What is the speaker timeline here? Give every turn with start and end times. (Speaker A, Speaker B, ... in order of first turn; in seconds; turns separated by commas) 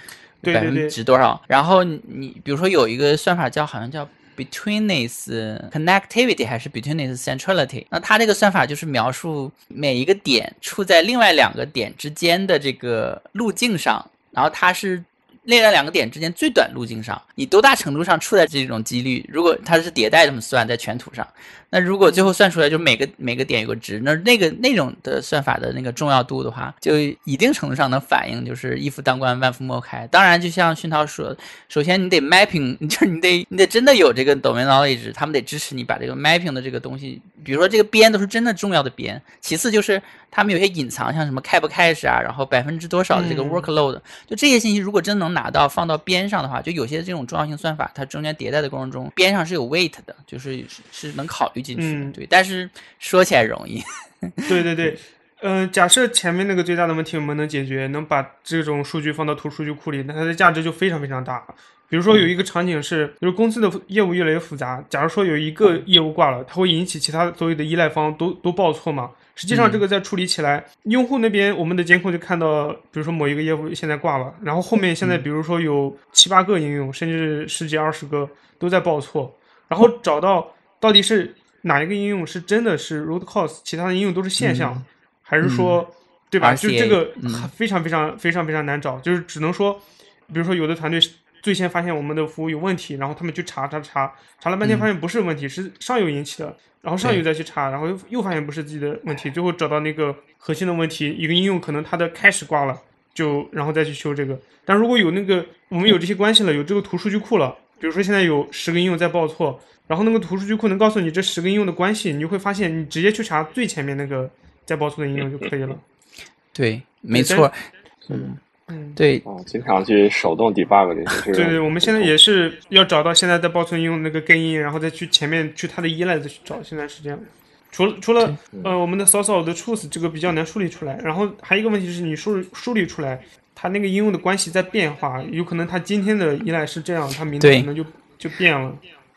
Speaker A: 0.4-1.0, Speaker B: 0.5-54.9, Speaker A: 22.0-22.3, Speaker A: 43.1-43.7, Speaker A: 51.8-52.2, Speaker A: 54.5-115.8, Speaker B: 69.5-69.8, Speaker B: 84.4-84.8, Speaker B: 85.4-85.8, Speaker B: 86.4-87.5, Speaker B: 94.6-94.9, Speaker C: 115.2-115.5, Speaker B: 116.5-118.4, Speaker A: 117.1-117.5, Speaker A: 118.7-119.0, Speaker B: 119.0-119.2, Speaker C: 119.2-122.2, Speaker A: 121.3-138.8, Speaker B: 137.4-137.7